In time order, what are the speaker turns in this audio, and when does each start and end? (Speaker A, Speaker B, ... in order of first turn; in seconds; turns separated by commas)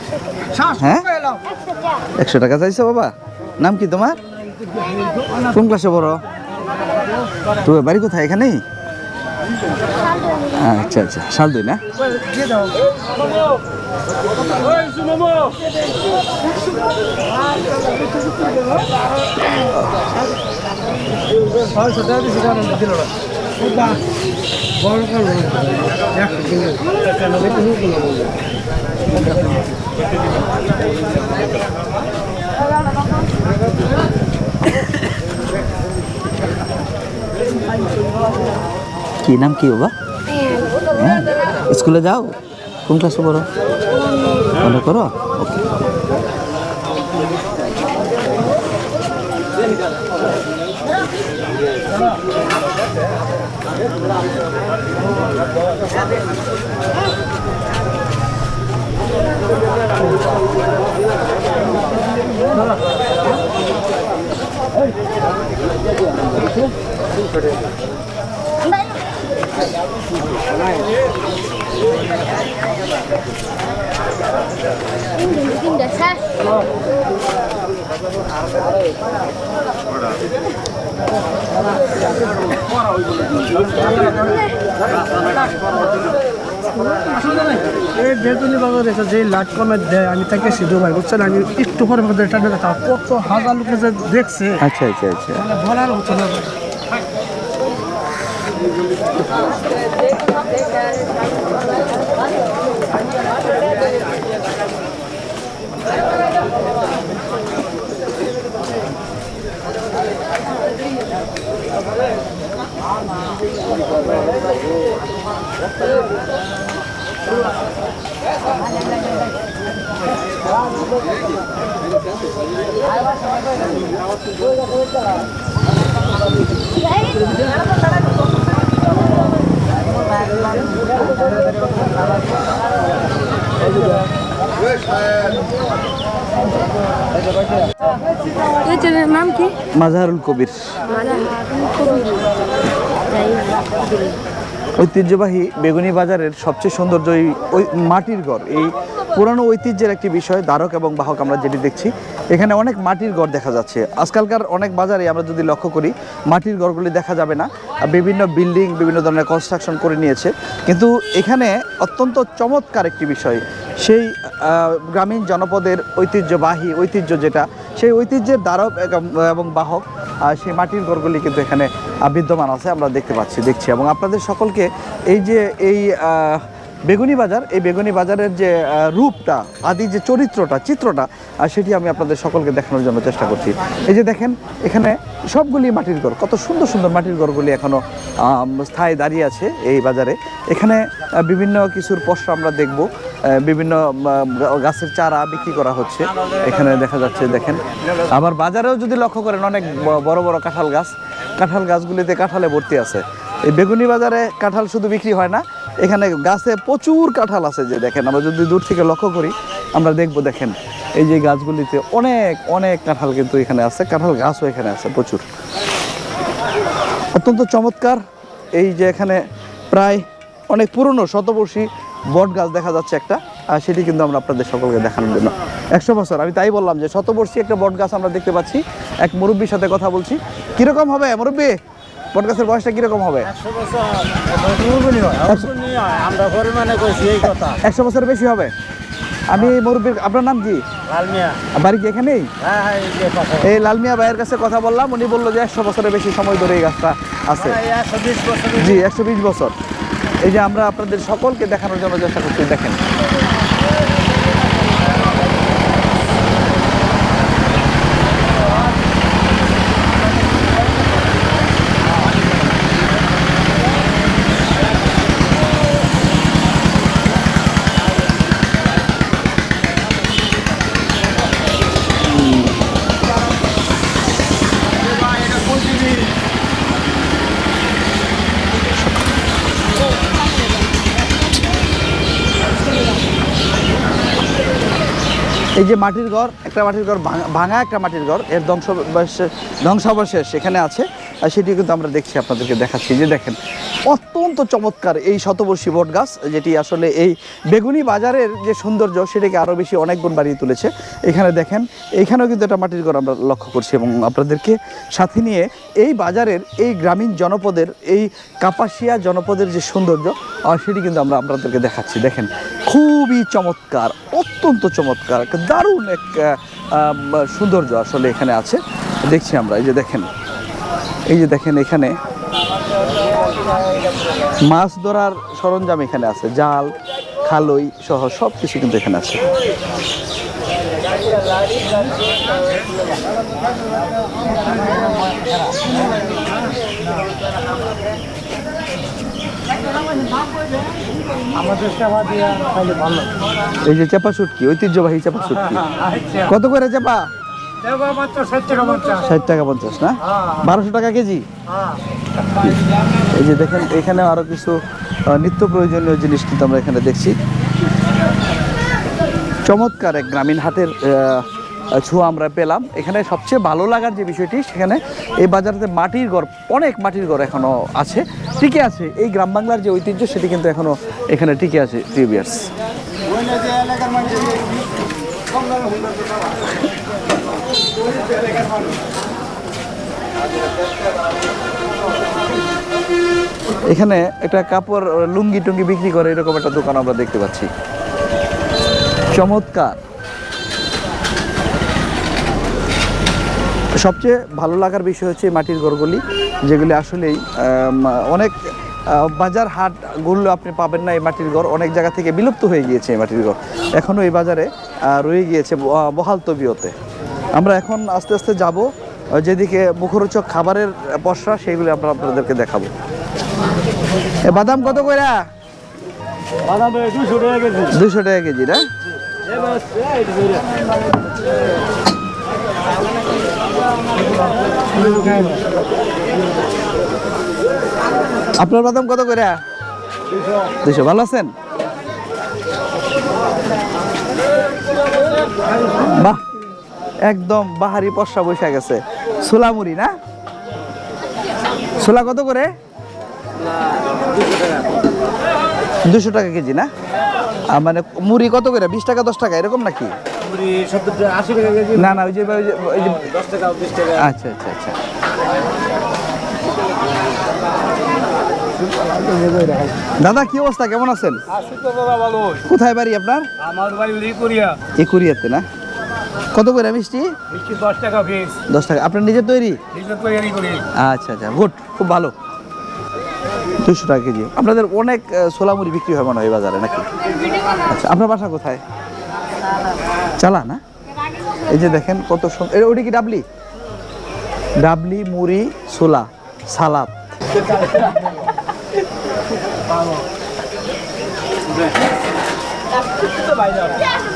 Speaker A: 0.6-1.4, Speaker B: 0.7-1.1, Speaker C: 1.4-2.0, Speaker B: 2.1-4.2, Speaker B: 5.4-6.2, Speaker B: 7.6-8.6, Speaker C: 10.0-10.6, Speaker B: 10.6-11.8, Speaker A: 12.0-12.8, Speaker A: 21.5-23.1, Speaker A: 23.6-24.0, Speaker A: 24.8-25.6, Speaker A: 26.2-27.6, Speaker B: 39.2-39.9, Speaker C: 40.3-40.7, Speaker B: 41.0-43.5, Speaker C: 44.0-44.5, Speaker B: 44.6-45.6, Speaker C: 68.6-69.1, Speaker C: 75.1-76.5, Speaker A: 83.8-84.3, Speaker A: 86.9-94.6, Speaker B: 94.6-95.5, Speaker A: 95.4-96.5, Speaker C: 138.7-139.5, Speaker B: 139.8-140.6, Speaker C: 140.9-142.2, Speaker C: 143.1-143.7, Speaker B: 144.8-215.2, Speaker B: 217.1-218.0, Speaker B: 218.5-219.2, Speaker B: 219.7-231.6, Speaker B: 232.1-233.3, Speaker A: 233.3-237.6, Speaker B: 235.2-235.5, Speaker B: 237.6-238.5, Speaker B: 239.3-240.6, Speaker A: 240.9-241.4, Speaker B: 241.5-242.3, Speaker A: 242.4-243.4, Speaker B: 243.4-247.6, Speaker A: 247.5-248.8, Speaker B: 248.5-249.5, Speaker B: 250.2-252.8, Speaker B: 272.1-272.6, Speaker B: 285.6-320.1, Speaker B: 321.1-321.9, Speaker B: 324.4-329.2, Speaker A: 341.3-343.1, Speaker B: 343.6-345.6, Speaker A: 345.7-346.2, Speaker B: 346.2-347.1, Speaker A: 347.6-349.1, Speaker B: 349.0-351.3, Speaker B: 353.1-357.1, Speaker B: 359.5-372.5, Speaker A: 373.5-374.1, Speaker B: 383.7-387.5, Speaker B: 389.1-389.8, Speaker B: 393.8-398.3, Speaker B: 398.9-406.7, Speaker B: 407.3-408.7, Speaker B: 409.2-412.7, Speaker B: 414.2-415.2, Speaker A: 416.5-417.6, Speaker B: 417.7-418.6, Speaker A: 424.7-425.4, Speaker B: 428.4-429.4, Speaker B: 430.6-431.3, Speaker B: 435.9-436.2, Speaker B: 437.1-439.9, Speaker B: 441.8-442.5, Speaker A: 444.3-444.5, Speaker B: 445.9-446.7, Speaker B: 447.5-449.9, Speaker A: 450.3-451.8, Speaker B: 451.7-453.1, Speaker A: 453.4-453.8, Speaker B: 453.8-454.8, Speaker A: 458.8-459.7, Speaker B: 460.0-461.2, Speaker A: 461.4-462.4, Speaker B: 462.4-463.3, Speaker A: 463.4-464.6, Speaker B: 464.7-465.4, Speaker B: 466.3-467.1, Speaker A: 467.3-468.4, Speaker B: 468.5-469.6, Speaker A: 469.7-470.6, Speaker B: 470.7-472.1, Speaker B: 473.6-476.9, Speaker B: 477.6-478.6, Speaker B: 480.2-480.6, Speaker B: 481.5-483.2, Speaker B: 484.6-486.9